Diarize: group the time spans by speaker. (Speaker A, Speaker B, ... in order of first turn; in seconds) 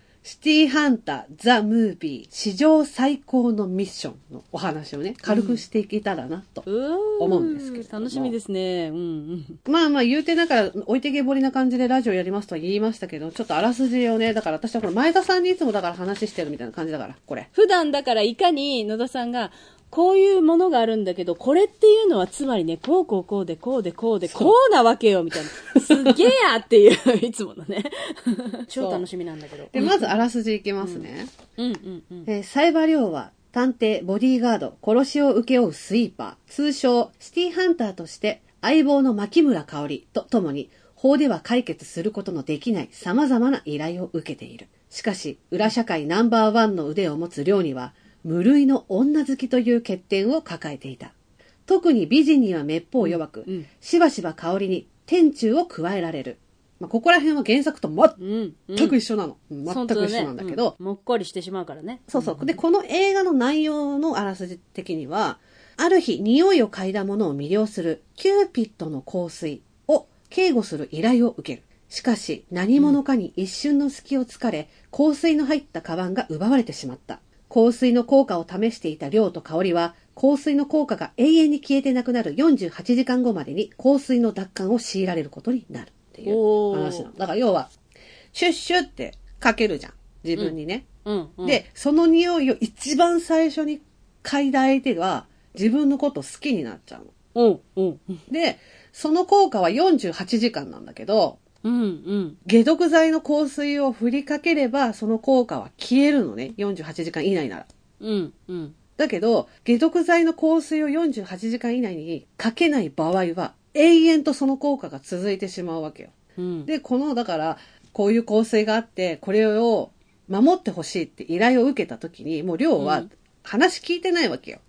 Speaker A: 0.2-6.7, 7.2-8.3, 9.7-17.5, 24.3-24.6, 25.7-26.1, 28.8-29.0, 29.7-31.3, 32.3-51.1, 51.7-58.2, 58.7-60.7, 62.1-87.7, 88.3-90.9, 91.4-97.1, 98.3-101.4, 102.5-107.7, 109.0-116.1, 116.7-124.6
Speaker B: 5.3-5.6, 6.7-9.6, 17.5-30.2, 30.8-32.3, 53.0-53.7, 58.2-59.0, 59.7-62.6, 86.2-87.1, 90.4-91.6, 97.3-98.2, 101.6-102.4, 108.0-108.8, 116.4-116.7, 122.8-123.1